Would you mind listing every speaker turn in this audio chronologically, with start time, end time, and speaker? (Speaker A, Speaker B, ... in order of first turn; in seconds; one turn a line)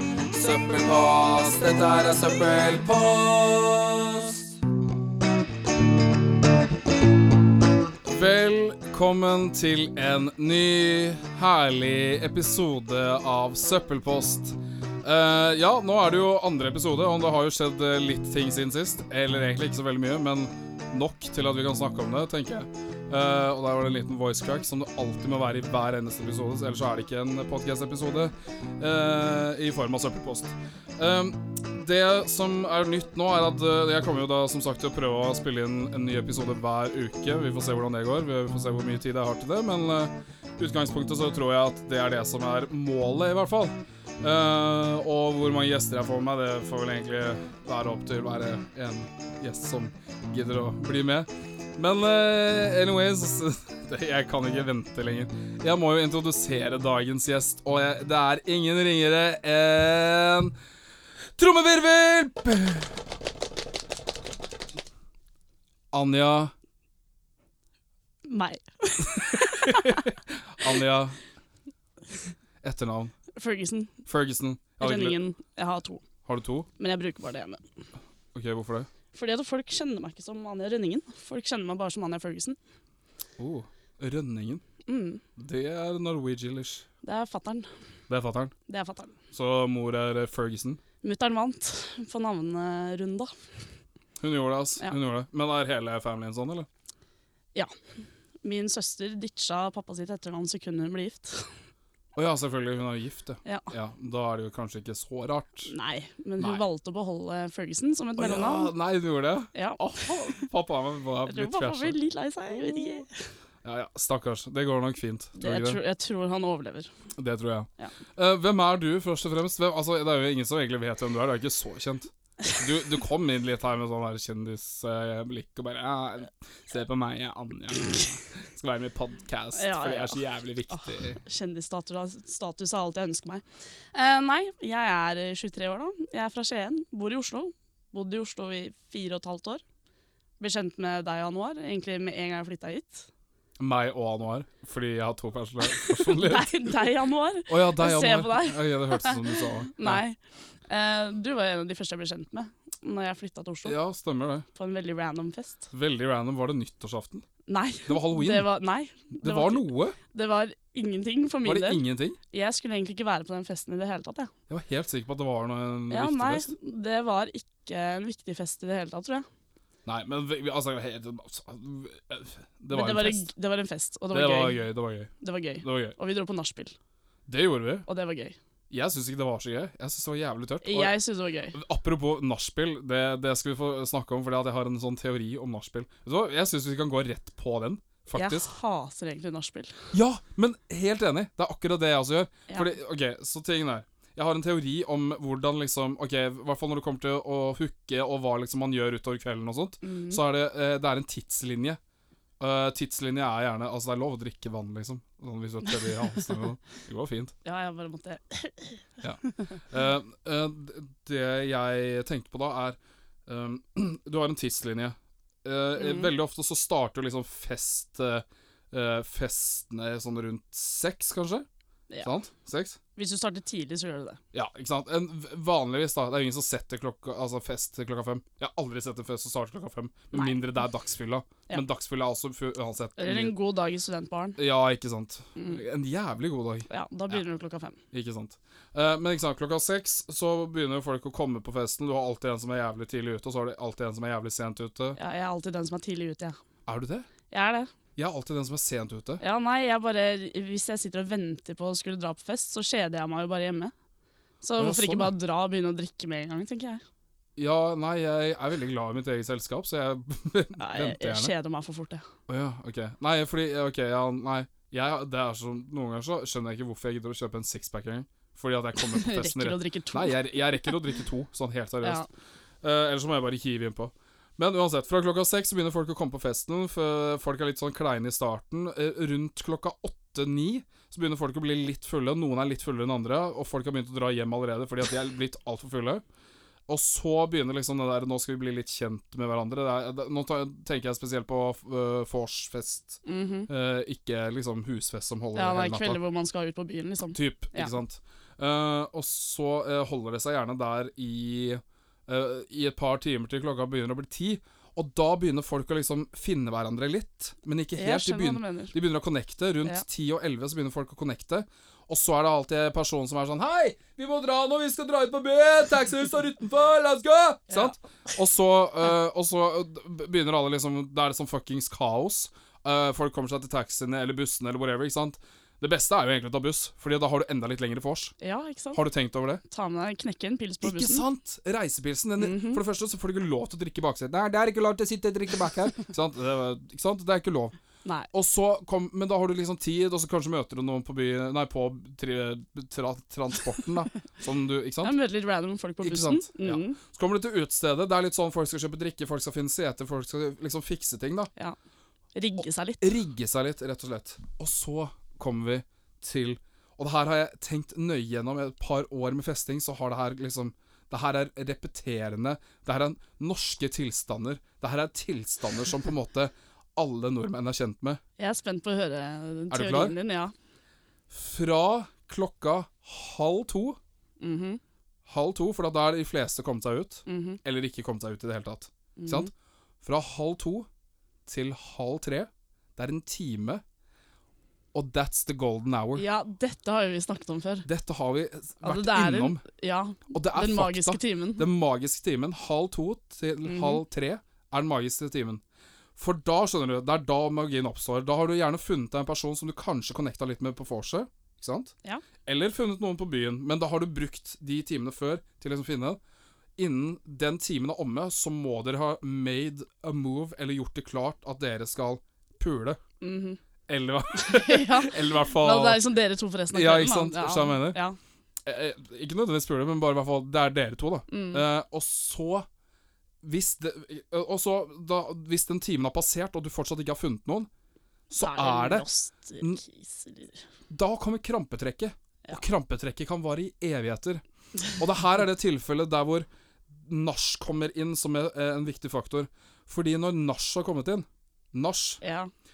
Speaker A: 0.3-4.5
Speaker A: 8.1-60.5
Speaker A: 61.4-62.9
Speaker A: 65.9-66.5
Speaker B: 68.2-70.0
Speaker A: 69.0-71.2
Speaker A: 72.6-73.1
Speaker B: 73.3-74.0
Speaker A: 74.0-75.2
Speaker B: 74.8-76.0
Speaker A: 76.2-76.7
Speaker B: 76.8-77.6
Speaker A: 78.3-78.9
Speaker B: 79.1-82.6
Speaker A: 83.4-84.6
Speaker B: 84.9-85.2
Speaker A: 85.4-86.8
Speaker B: 87.0-87.7
Speaker A: 88.1-88.5
Speaker B: 88.7-89.2
Speaker A: 89.3-90.8
Speaker B: 91.0-93.3
Speaker A: 94.2-96.7
Speaker B: 98.4-101.5
Speaker A: 102.2-105.7
Speaker B: 103.4-103.7
Speaker B: 105.7-108.7
Speaker A: 108.2-112.0
Speaker B: 109.5-110.4
Speaker B: 111.2-113.1
Speaker A: 112.7-113.0
Speaker A: 113.6-115.8
Speaker B: 115.3-116.9
Speaker A: 117.2-131.2
Speaker B: 129.5-139.6
Speaker B: 140.4-143.1
Speaker A: 143.6-146.9
Speaker B: 145.7-153.8
Speaker A: 147.5-150.0
Speaker A: 153.7-154.4
Speaker B: 154.5-155.7
Speaker A: 155.7-157.3
Speaker B: 157.5-164.3
Speaker A: 157.9-158.5
Speaker A: 159.2-160.0
Speaker A: 161.4-162.2
Speaker A: 164.5-166.5
Speaker B: 165.9-169.3
Speaker A: 169.8-173.3
Speaker B: 172.7-174.6
Speaker A: 174.1-175.9
Speaker B: 175.2-176.8
Speaker A: 177.3-177.8
Speaker B: 177.9-178.4
Speaker A: 178.7-180.9
Speaker B: 180.6-181.6
Speaker A: 181.5-188.5
Speaker B: 188.2-189.9
Speaker A: 189.9-201.8
Speaker B: 192.5-192.7
Speaker B: 199.8-200.2
Speaker A: 202.4-207.3
Speaker B: 207.4-209.0
Speaker A: 209.0-221.4
Speaker B: 215.8-216.1
Speaker A: 222.0-222.8
Speaker B: 222.9-224.2
Speaker A: 224.3-233.3
Speaker B: 230.1-230.4
Speaker B: 233.0-234.4
Speaker A: 234.4-237.2
Speaker B: 236.7-237.8
Speaker A: 237.9-245.0
Speaker B: 244.9-246.4
Speaker A: 246.7-247.1
Speaker B: 247.3-247.7
Speaker A: 247.9-249.2
Speaker B: 249.2-253.7
Speaker B: 254.4-256.8
Speaker A: 254.6-255.1
Speaker A: 257.4-261.3
Speaker B: 260.6-262.1
Speaker A: 262.3-272.1
Speaker B: 268.8-270.8
Speaker A: 272.6-286.0
Speaker A: 286.7-296.0
Speaker B: 293.1-293.5
Speaker B: 295.3-297.8
Speaker A: 297.1-328.1
Speaker B: 307.8-308.7
Speaker B: 317.5-317.8
Speaker B: 328.2-328.8
Speaker A: 328.7-329.4
Speaker B: 329.4-331.0
Speaker A: 330.6-337.6
Speaker B: 332.2-332.6
Speaker A: 338.1-344.9
Speaker B: 344.8-346.8
Speaker A: 345.8-351.3
Speaker B: 352.1-352.9
Speaker A: 352.8-368.0
Speaker B: 368.2-370.3
Speaker A: 369.5-369.9
Speaker A: 371.1-373.8
Speaker B: 374.2-374.6
Speaker A: 375.1-379.3
Speaker B: 377.1-377.4
Speaker B: 379.0-379.3
Speaker A: 379.8-380.7
Speaker A: 381.2-383.6
Speaker A: 384.7-386.1
Speaker B: 385.9-387.7
Speaker A: 387.6-389.4
Speaker B: 388.6-391.5
Speaker A: 390.1-395.4
Speaker B: 393.4-393.8
Speaker A: 396.0-406.0
Speaker A: 406.6-412.8
Speaker B: 413.0-413.4
Speaker A: 413.7-415.8
Speaker B: 414.1-418.0
Speaker A: 416.5-417.8
Speaker A: 418.4-422.4
Speaker B: 421.1-421.4
Speaker A: 423.2-427.5
Speaker A: 428.1-428.9
Speaker B: 428.2-430.4
Speaker A: 430.7-436.3
Speaker A: 436.8-442.0
Speaker B: 442.0-442.3